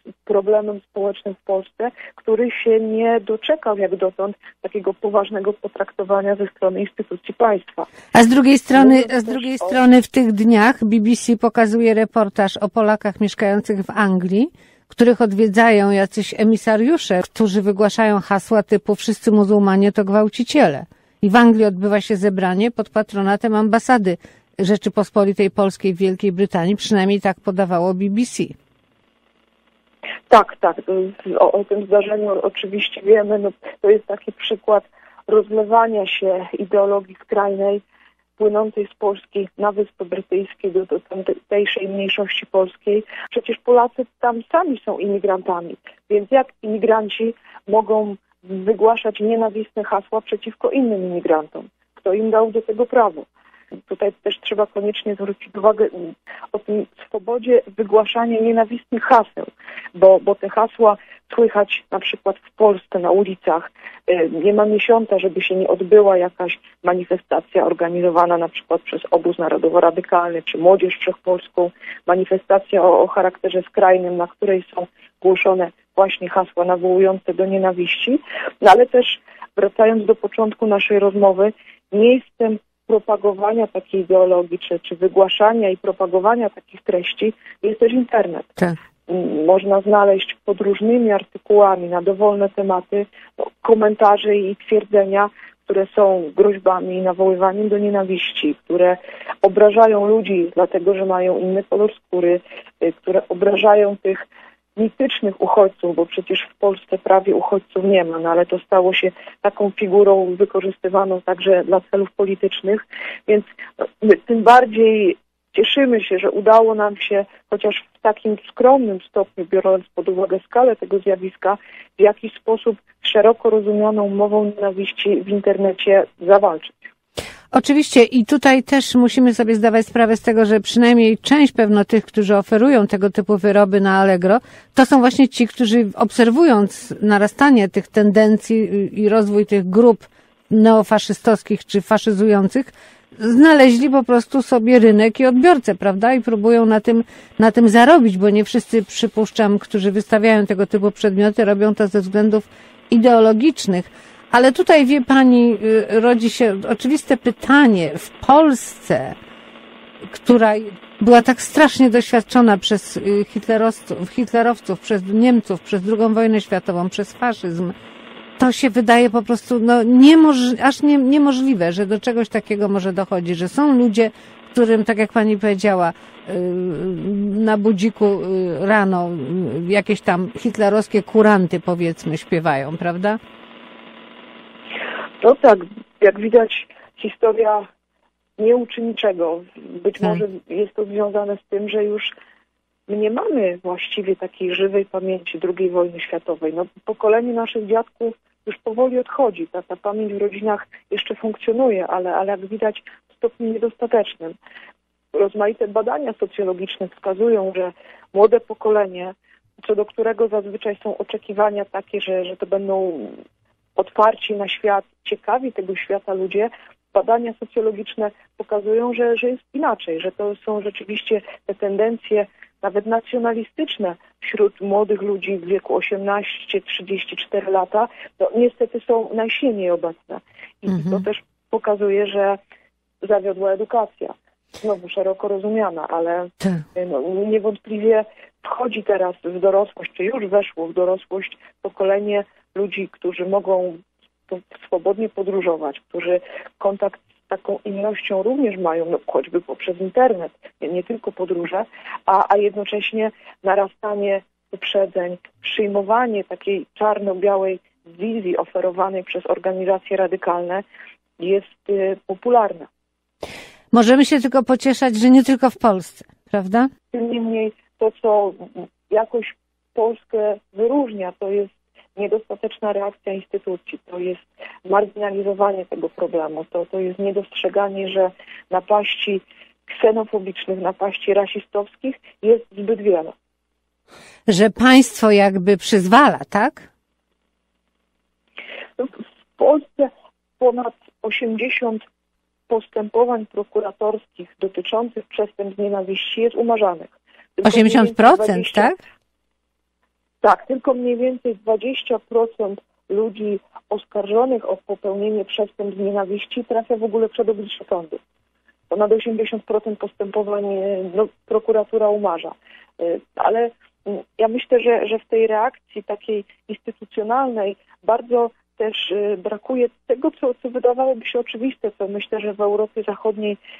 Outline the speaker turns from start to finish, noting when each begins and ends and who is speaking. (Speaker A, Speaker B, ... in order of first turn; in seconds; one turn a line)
Speaker A: 0.2-7.9
Speaker B: 8.1-28.5
Speaker A: 8.7-9.8
Speaker A: 30.3-37.8
Speaker A: 38.4-53.3
Speaker A: 53.9-88.5
Speaker A: 89.1-93.1
Speaker A: 93.6-104.2
Speaker A: 104.8-113.5
Speaker A: 114.0-126.9
Speaker B: 127.5-159.2
Speaker B: 160.1-167.7
Speaker B: 168.4-183.2
Speaker A: 185.2-187.6
Speaker A: 188.4-192.1
Speaker A: 192.9-204.3
Speaker A: 205.1-209.1
Speaker A: 209.7-213.2
Speaker A: 213.8-232.4
Speaker B: 230.7-231.0
Speaker A: 233.0-260.6
Speaker A: 261.2-262.7
Speaker B: 263.7-266.7
Speaker A: 266.9-283.1
Speaker B: 284.3-286.7
Speaker A: 288.8-291.8
Speaker A: 292.5-298.7
Speaker B: 297.4-298.8
Speaker A: 300.2-308.0
Speaker A: 308.7-323.4